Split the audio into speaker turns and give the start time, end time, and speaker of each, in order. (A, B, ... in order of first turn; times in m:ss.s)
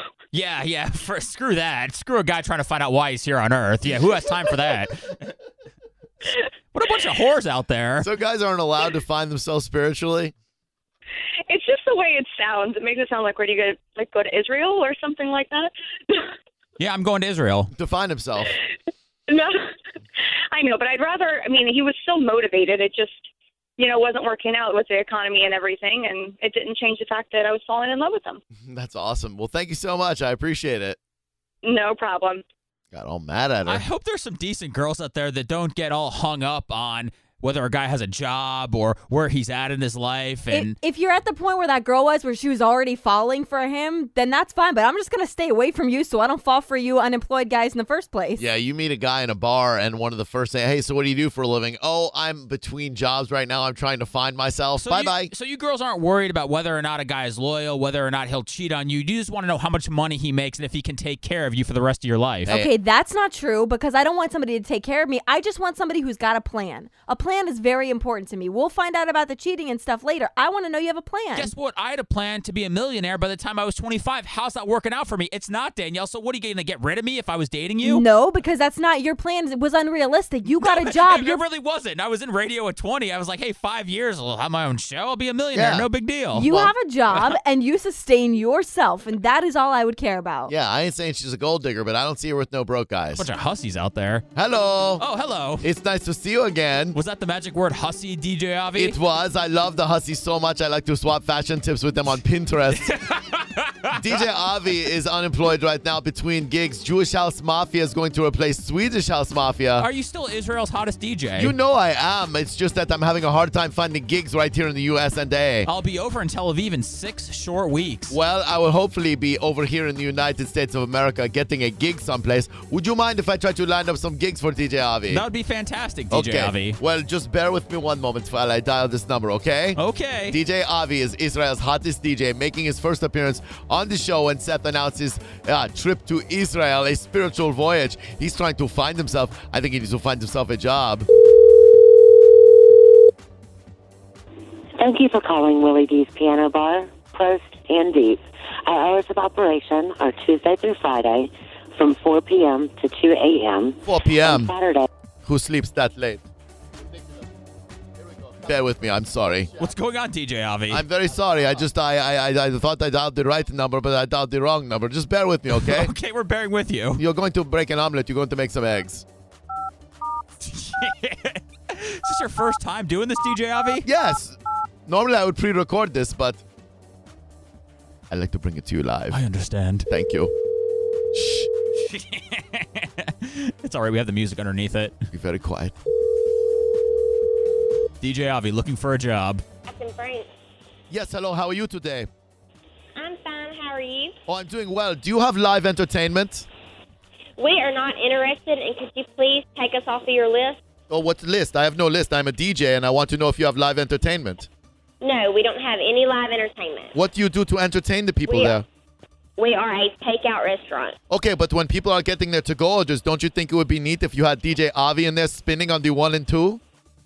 0:00.3-0:05.3 A
0:06.7-0:08.0 A
0:08.0-0:10.3 B
0:11.5-0:16.3 C
0:16.8-0:17.7 A
0:17.7-0:18.6 B
0:19.3-0:19.6 C
0:20.5-0:23.2 C
0:23.8-0:28.4 C
0:28.6-0:31.0 B
0:31.6-0:32.4 C
0:32.9-0:33.8 B
0:33.6-0:40.8 A
0:40.5-0:48.4 D
0:48.4-0:55.3 B
0:54.8-1:02.5 A
1:02.5-1:11.5 D
1:11.3-1:18.0 A
1:17.8-1:21.4 D
1:20.6-1:26.5 A
1:25.5-1:25.9 B
1:26.3-1:30.5 D
1:26.5-1:26.7 B
1:30.5-1:33.3 B
1:33.2-1:34.2 A
1:34.3-1:35.0 B
1:35.0-1:35.6 A
1:35.6-1:37.0 B
1:36.9-1:39.0 A
1:38.8-1:42.9 B
1:42.8-1:44.0 A
1:43.9-1:49.9 B
1:49.8-1:51.5 A
1:51.4-1:55.7 B
1:55.6-1:58.2 A
1:58.1-2:05.2 B
2:05.1-2:06.8 A
2:06.1-2:21.1 B
2:09.8-2:10.4 A
2:24.8-2:34.9 E
2:33.8-2:34.5 B
2:35.2-2:36.2 B
2:38.0-2:39.7 B
2:39.6-2:40.8 A
2:40.7-2:45.9 B
2:45.5-2:47.0 A
2:47.0-2:49.0 B
2:50.4-2:53.8 A
2:53.8-2:56.4 B
2:58.1-2:59.2 B
2:59.1-2:59.9 A
2:59.9-3:00.3 B
3:01.2-3:01.4 B
3:01.8-3:04.9 A
3:05.1-3:05.7 B
3:08.0-3:09.4 A
3:09.6-3:10.3 F
3:10.9-3:12.1 B
3:13.0-3:14.1 F
3:14.3-3:16.4 B
3:17.4-3:20.6 F
3:20.9-3:24.5 B
3:25.0-3:26.9 F
3:26.9-3:28.6 B
3:28.3-3:28.6 F
3:29.4-3:31.0 F
3:31.1-3:36.6 B